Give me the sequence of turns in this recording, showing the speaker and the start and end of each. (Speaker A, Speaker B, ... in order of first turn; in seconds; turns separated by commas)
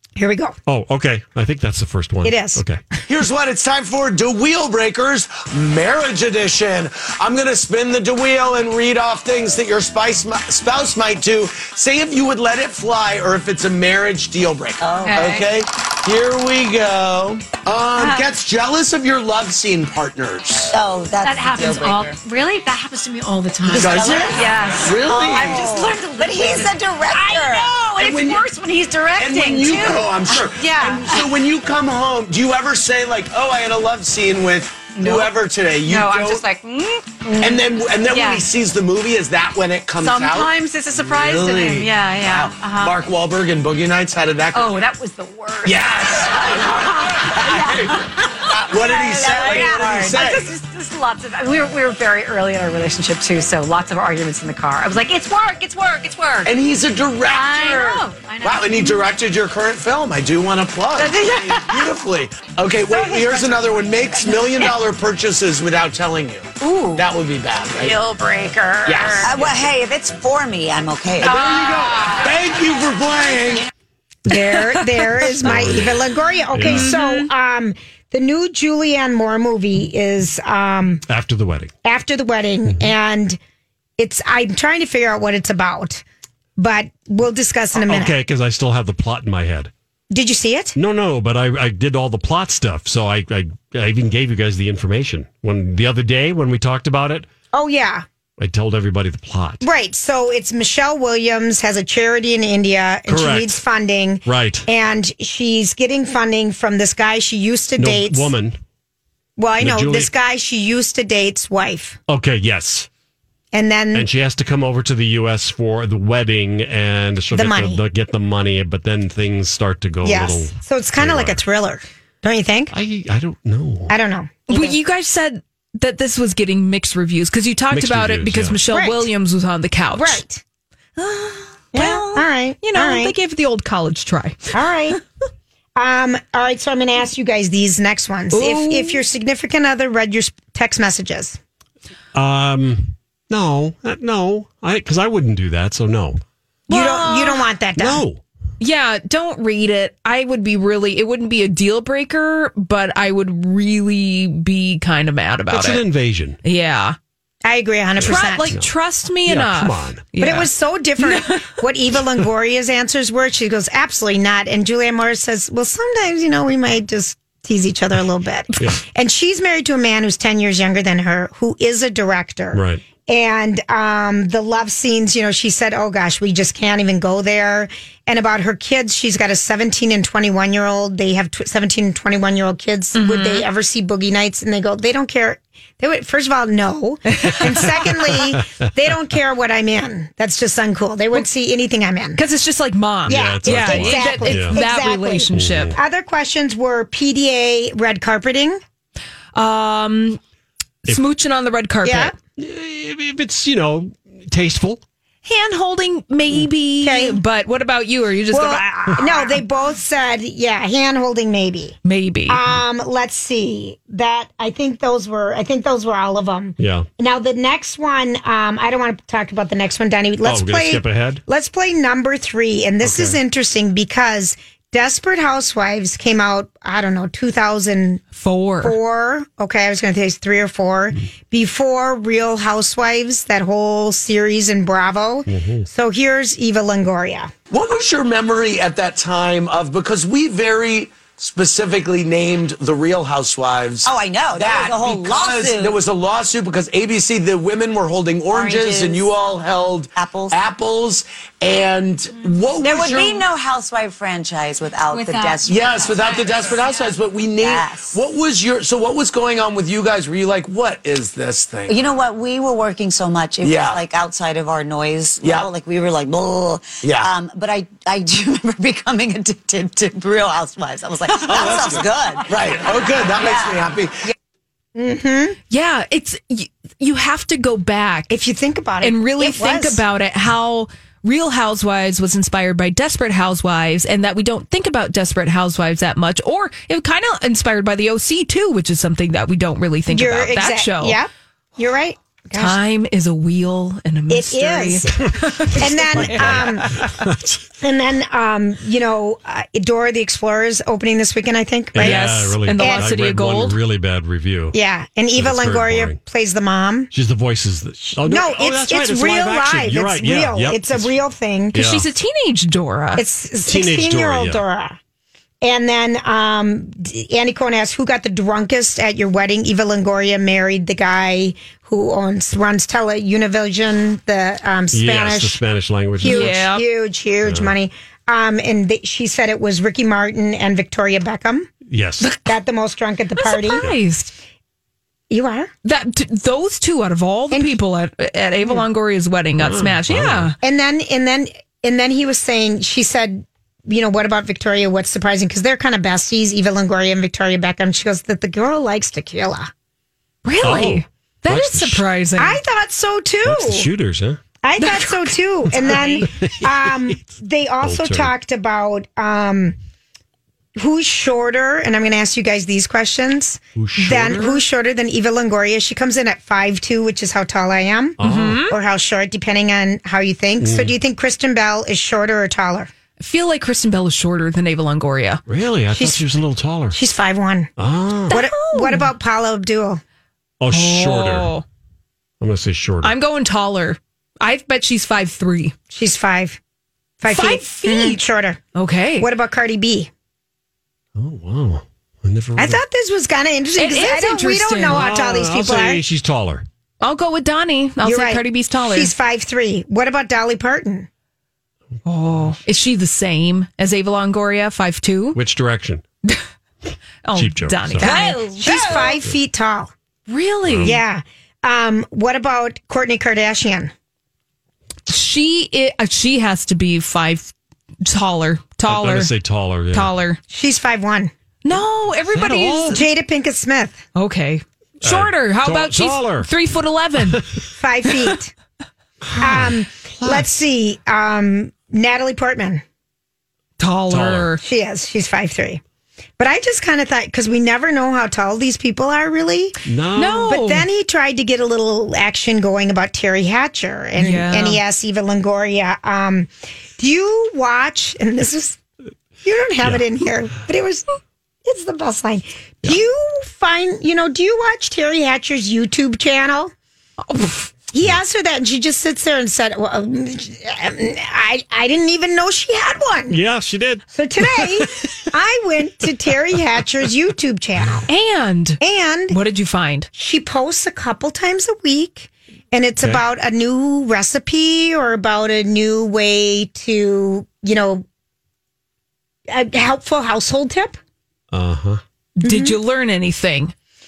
Speaker A: 0.2-0.6, Speaker B: 0.7-2.8, Speaker A: 2.2-2.6, Speaker C: 3.1-20.7, Speaker D: 14.8-15.3, Speaker E: 15.0-15.5, Speaker E: 17.9-18.3, Speaker D: 20.7-22.2, Speaker E: 21.2-31.3, Speaker C: 23.7-25.7, Speaker D: 23.7-24.5, Speaker D: 25.1-27.8, Speaker C: 28.0-28.4, Speaker C: 29.2-36.4, Speaker E: 35.0-38.5, Speaker C: 37.4-44.8, Speaker E: 40.0-43.0, Speaker E: 44.5-56.6, Speaker C: 45.6-50.6, Speaker D: 49.5-50.1, Speaker C: 56.5-68.0, Speaker E: 57.2-59.1, Speaker E: 60.9-61.9, Speaker E: 62.9-64.8, Speaker E: 66.6-67.1, Speaker E: 67.7-69.5, Speaker C: 68.8-69.6, Speaker D: 69.2-71.4, Speaker C: 71.2-73.7, Speaker E: 71.2-72.3, Speaker A: 74.3-81.0, Speaker F: 74.3-75.3, Speaker B: 75.4-76.0, Speaker B: 76.5-76.9, Speaker F: 76.7-77.3, Speaker B: 81.1-81.7, Speaker A: 81.8-83.4, Speaker B: 82.7-82.9, Speaker A: 84.0-86.0, Speaker A: 86.6-88.2, Speaker B: 87.8-89.7, Speaker A: 90.1-90.8, Speaker B: 90.8-97.3, Speaker A: 97.5-98.1, Speaker B: 98.4-99.7, Speaker A: 99.6-108.3, Speaker B: 103.1-103.6, Speaker B: 104.2-104.7, Speaker B: 107.8-108.6, Speaker A: 109.4-112.0, Speaker B: 109.6-110.1, Speaker B: 112.1-112.9, Speaker A: 113.5-114.1, Speaker B: 113.9-121.4, Speaker A: 117.3-117.8, Speaker A: 120.0-122.8, Speaker B: 122.7-124.0, Speaker A: 123.9-124.8, Speaker F: 124.5-130.2, Speaker B: 127.7-128.6, Speaker A: 128.7-129.1, Speaker A: 129.9-130.4, Speaker F: 131.0-134.5, Speaker A: 131.7-133.2, Speaker A: 134.5-135.0, Speaker A: 135.8-141.4, Speaker F: 138.3-139.0, Speaker B: 142.1-146.2, Speaker F: 146.7-147.5, Speaker A: 146.7-148.0, Speaker B: 147.8-148.2, Speaker F: 148.6-155.8, Speaker B: 155.5-156.4, Speaker F: 156.4-157.0, Speaker A: 157.4-158.6, Speaker B: 158.0-158.7, Speaker F: 158.0-161.5, Speaker B: 159.3-160.0, Speaker A: 160.2-192.2, Speaker B: 172.5-172.8, Speaker F: 182.9-183.5, Speaker F: 187.1-187.9, Speaker F: 192.2-195.8, Speaker B: 193.1-194.6, Speaker A: 193.1-198.6, Speaker B: 195.3-195.8, Speaker F: 199.3-200.2, Speaker F: 200.9-202.1, Speaker A: 201.8-202.1, Speaker B: 202.4-204.8, Speaker F: 205.2-209.4, Speaker A: 206.8-207.2, Speaker A: 208.3-211.8, Speaker F: 211.8-212.4, Speaker A: 212.3-228.0, Speaker B: 216.6-216.9, Speaker B: 220.2-221.2, Speaker B: 222.8-223.2, Speaker F: 228.2-228.8, Speaker A: 228.6-237.3, Speaker B: 235.3-235.7, Speaker C: 237.5-253.2, Speaker D: 243.8-245.8, Speaker D: 248.3-249.2, Speaker D: 250.0-250.4, Speaker D: 252.6-255.9, Speaker E: 254.9-255.4, Speaker C: 255.4-261.8, Speaker D: 257.4-258.0, Speaker D: 261.7-273.6, Speaker C: 263.4-263.8, Speaker C: 265.2-265.5, Speaker C: 266.8-267.1, Speaker C: 271.2-274.0, Speaker A: 274.8-275.4, Speaker F: 275.5-278.1, Speaker A: 278.1-279.8, Speaker F: 278.8-291.0, Speaker A: 289.9-292.6, Speaker F: 292.4-297.1, Speaker A: 294.1-296.7, Speaker B: 295.9-297.4, Speaker A: 297.6-302.9, Speaker B: 301.7-304.6, Speaker F: 301.8-303.6, Speaker A: 304.5-306.9, Speaker B: 305.1-306.0, Speaker B: 306.9-311.0, Speaker A: 307.8-311.6, Speaker B: 311.5-311.9, Speaker F: 311.6-313.0, Speaker A: 313.0-314.8, Speaker B: 313.4-314.4, Speaker A: 315.4-325.4, Speaker B: 324.7-326.4, Speaker A: 326.0-331.5, Speaker F: 326.0-326.6, Speaker B: 327.2-327.6, Speaker B: 331.7-332.1, Speaker A: 332.1-333.7, Speaker F: 333.2-334.1, Speaker A: 335.1-335.5, Speaker F: 335.6-340.4, Speaker B: 339.4-340.3, Speaker A: 340.4-349.5, Speaker F: 350.2-352.4, Speaker B: 350.4-351.9, Speaker A: 352.2-353.7, Speaker B: 353.2-354.2, Speaker A: 354.4-359.6, Speaker F: 354.6-356.1, Speaker B: 356.0-357.0, Speaker B: 357.6-358.1, Speaker A: 360.6-372.7, Speaker B: 363.6-364.4, Speaker B: 368.0-368.4, Speaker F: 368.0-368.6, Speaker B: 370.4-370.8, Speaker F: 373.0-375.2, Speaker B: 375.3-376.8, Speaker A: 375.7-376.0, Speaker A: 376.7-377.5, Speaker B: 377.6-378.2, Speaker F: 378.1-378.9, Speaker A: 378.1-379.8, Speaker B: 380.4-381.3, Speaker F: 380.5-381.4, Speaker B: 382.2-382.9, Speaker F: 382.8-385.6, Speaker A: 385.7-386.4, Speaker A: 387.0-388.4, Speaker F: 387.1-388.0, Speaker F: 388.6-389.1, Speaker A: 389.0-389.9, Speaker B: 391.0-392.6, Speaker A: 392.4-395.8, Speaker F: 393.6-394.9, Speaker B: 394.7-396.5, Speaker F: 396.8-398.9, Speaker A: 397.8-400.9, Speaker F: 401.9-405.2, Speaker B: 405.1-405.8, Speaker F: 407.0-409.0, Speaker B: 407.1-408.0, Speaker A: 407.8-409.7, Speaker F: 410.1-410.8, Speaker B: 410.4-410.8, Speaker A: 410.6-413.7, Speaker F: 414.9-417.3, Speaker F: 417.8-419.1, Speaker B: 418.7-419.9, Speaker F: 419.7-420.2, Speaker A: 420.3-421.1, Speaker F: 421.4-422.8, Speaker B: 422.1-422.8, Speaker A: 422.7-423.8, Speaker F: 423.9-427.2, Speaker B: 424.8-426.3, Speaker B: 427.0-427.4, Speaker A: 427.5-428.3, Speaker B: 429.0-430.4, Speaker A: 429.2-432.6, Speaker F: 433.6-434.4, Speaker B: 433.9-434.3, Speaker A: 434.4-435.6, Speaker A: 436.2-439.6, Speaker B: 439.7-440.4, Speaker F: 439.9-440.7, Speaker A: 440.3-448.6, Speaker F: 444.0-444.6, Speaker A: 449.2-450.9, Speaker A: 451.4-456.5, Speaker F: 457.1-457.5, Speaker A: 457.7-463.2, Speaker B: 463.1-464.9, Speaker A: 463.9-467.9, Speaker F: 467.9-469.9, Speaker A: 468.6-469.2, Speaker A: 469.9-477.9, Speaker A: 479.3-480.8, Speaker B: 481.3-481.8, Speaker F: 482.2-483.5, Speaker A: 482.2-482.6